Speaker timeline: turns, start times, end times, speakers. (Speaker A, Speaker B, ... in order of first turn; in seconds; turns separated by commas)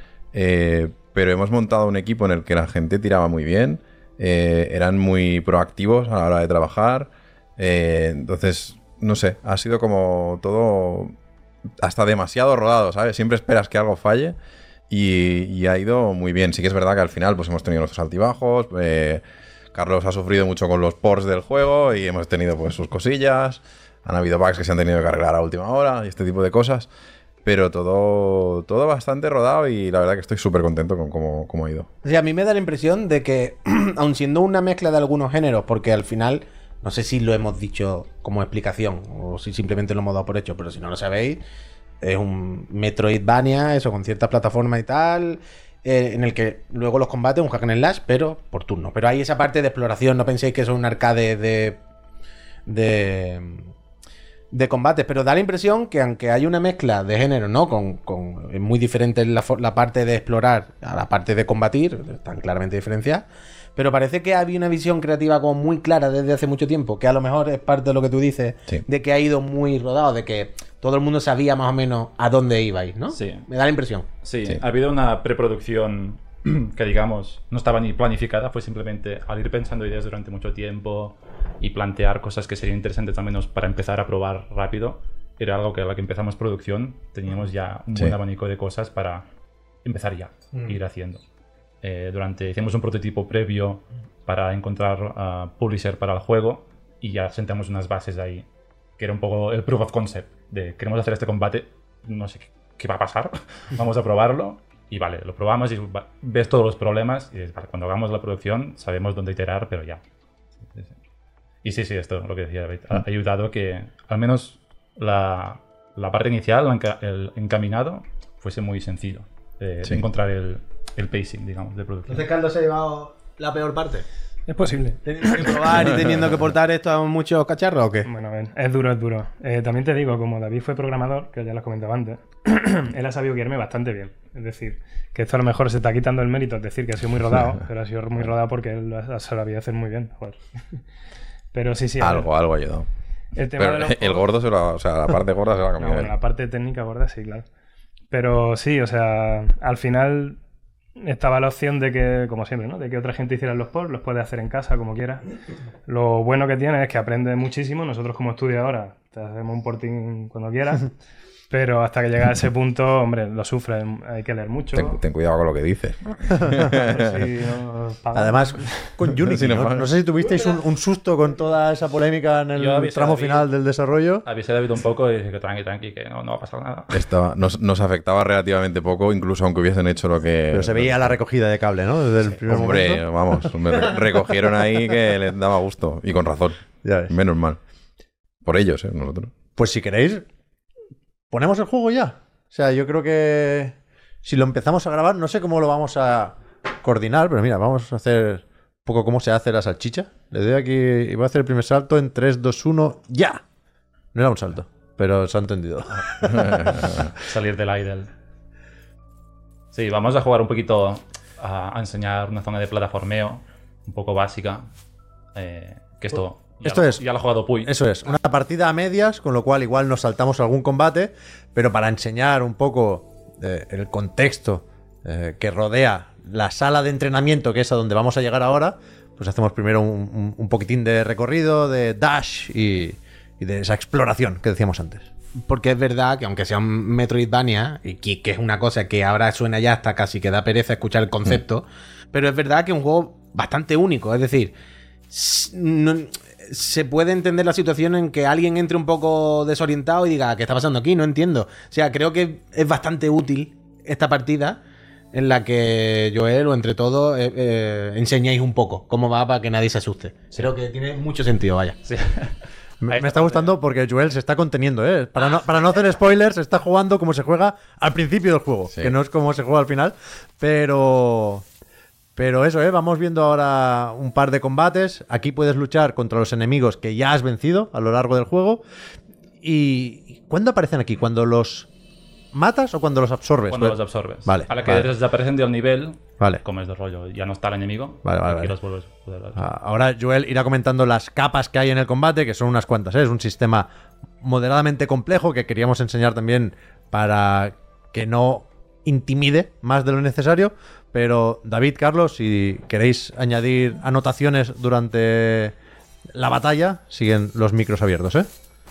Speaker A: 0.3-11.2, Speaker A: 11.8-14.4, Speaker A: 14.9-19.2, Speaker A: 19.7-26.9, Speaker A: 27.4-31.9, Speaker B: 32.0-41.4, Speaker B: 42.0-51.8, Speaker B: 52.6-53.7, Speaker B: 54.5-74.1, Speaker C: 73.1-73.5, Speaker C: 74.2-89.2, Speaker C: 89.8-91.2, Speaker C: 91.8-98.4, Speaker C: 99.0-110.0, Speaker C: 111.6-122.2, Speaker B: 122.1-124.0, Speaker D: 124.5-125.8, Speaker B: 125.0-128.1, Speaker A: 125.9-126.2, Speaker D: 128.0-140.4, Speaker D: 141.5-142.3, Speaker A: 142.0-142.9, Speaker D: 143.3-144.3, Speaker A: 143.6-146.1, Speaker D: 145.8-147.4, Speaker D: 148.1-150.4, Speaker D: 151.0-155.2, Speaker D: 155.9-160.9, Speaker D: 161.5-165.0, Speaker A: 164.7-167.2, Speaker D: 166.7-168.9, Speaker E: 168.1-174.2, Speaker A: 169.1-169.9, Speaker C: 172.5-173.5, Speaker C: 174.2-176.9, Speaker A: 176.9-181.2, Speaker E: 180.5-183.5, Speaker A: 182.4-187.6, Speaker E: 186.8-187.1, Speaker A: 188.4-189.3, Speaker E: 189.6-190.2, Speaker E: 191.3-203.4, Speaker E: 204.1-206.8, Speaker A: 206.2-207.0, Speaker C: 207.2-208.1, Speaker C: 209.7-214.6, Speaker C: 215.3-217.7, Speaker E: 216.6-217.0, Speaker E: 217.6-235.1, Speaker B: 235.4-244.5, Speaker B: 245.1-254.6, Speaker B: 255.1-261.8, Speaker C: 261.9-263.5, Speaker E: 262.8-271.4, Speaker E: 272.1-278.6, Speaker E: 279.4-281.7, Speaker E: 282.3-284.9, Speaker C: 283.5-289.4, Speaker E: 288.0-288.5, Speaker E: 289.4-293.7, Speaker E: 294.2-305.5, Speaker E: 306.1-308.3